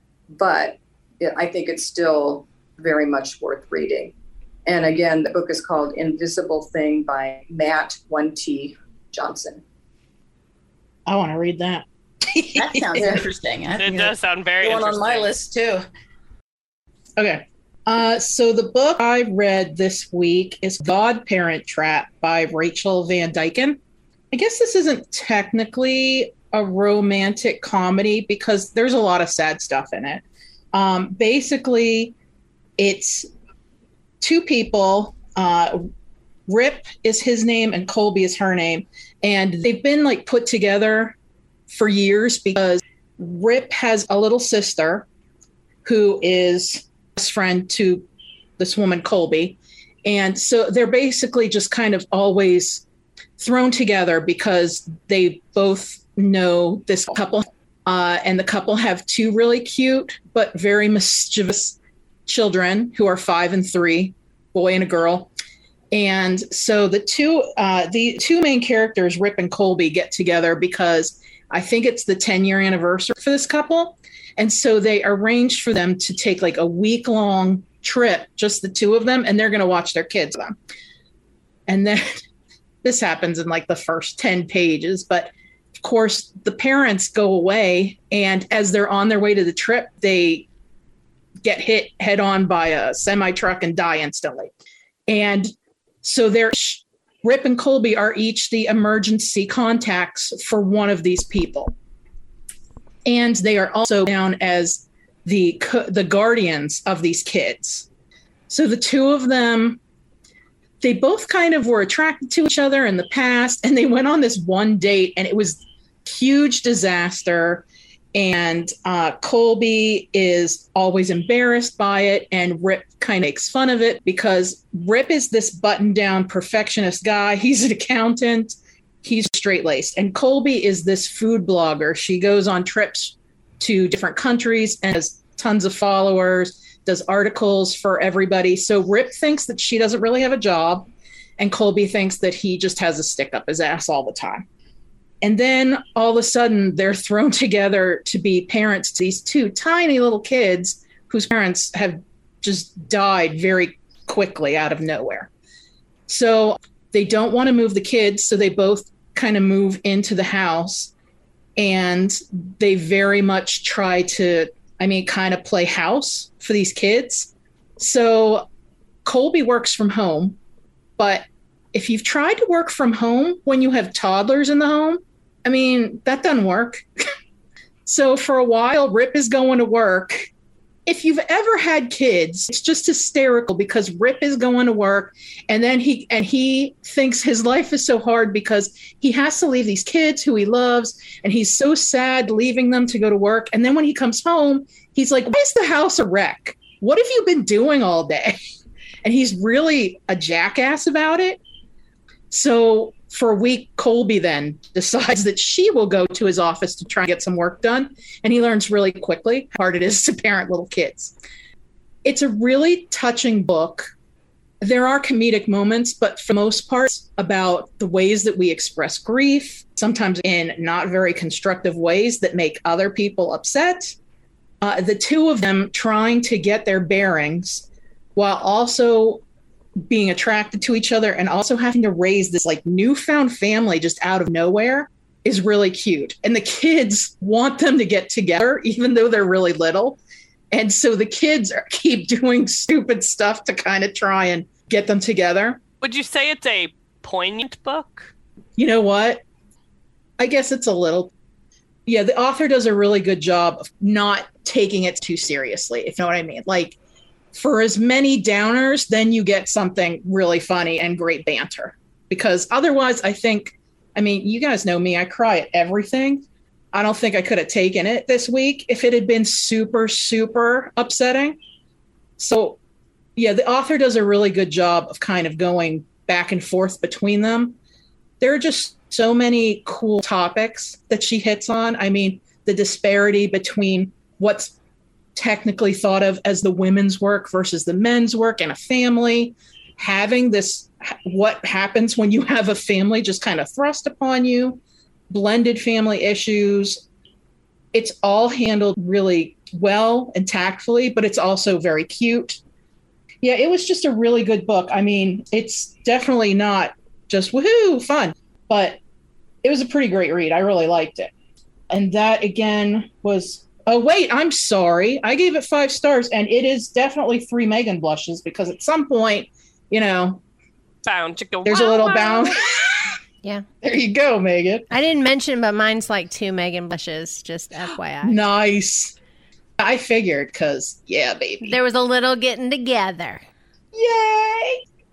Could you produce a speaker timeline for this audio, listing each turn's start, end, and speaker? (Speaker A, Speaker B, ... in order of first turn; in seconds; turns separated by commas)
Speaker A: 0.3-4.1, Speaker A: 4.7-9.6, Speaker B: 11.1-13.2, Speaker C: 12.5-15.8, Speaker D: 13.8-15.3, Speaker B: 17.2-23.8, Speaker B: 24.3-32.1, Speaker B: 32.8-33.3, Speaker B: 34.2-35.9, Speaker B: 36.5-41.1, Speaker B: 41.7-45.0, Speaker B: 45.8-48.0, Speaker B: 48.6-52.8, Speaker B: 53.4-65.3, Speaker B: 65.9-80.6, Speaker B: 81.7-82.2, Speaker B: 82.8-90.5, Speaker B: 91.4-94.5, Speaker B: 95.1-95.5, Speaker B: 96.0-101.7, Speaker B: 103.0-107.9, Speaker B: 108.5-109.8, Speaker B: 110.8-144.4, Speaker B: 145.2-155.3, Speaker B: 156.1-160.9, Speaker B: 161.6-168.5, Speaker B: 169.0-170.4, Speaker B: 171.0-176.8, Speaker B: 177.8-180.3, Speaker B: 180.8-198.4, Speaker B: 199.0-201.4, Speaker B: 202.3-211.1, Speaker B: 212.0-213.9, Speaker B: 214.6-223.9, Speaker B: 224.6-229.2, Speaker B: 229.8-240.0, Speaker B: 240.5-245.6, Speaker D: 245.8-248.1, Speaker B: 248.6-249.2, Speaker B: 250.2-251.1, Speaker B: 251.8-256.8, Speaker B: 257.3-271.4, Speaker B: 272.2-272.6, Speaker B: 273.1-277.6, Speaker B: 278.2-284.5, Speaker B: 285.1-296.8, Speaker B: 297.7-302.4, Speaker B: 303.2-308.8, Speaker B: 309.4-311.1, Speaker B: 311.7-320.2, Speaker D: 320.8-322.4, Speaker B: 321.4-323.0, Speaker B: 323.6-324.7, Speaker E: 324.7-328.3, Speaker B: 328.0-328.9, Speaker B: 329.6-331.6, Speaker E: 331.4-333.2, Speaker C: 333.8-334.6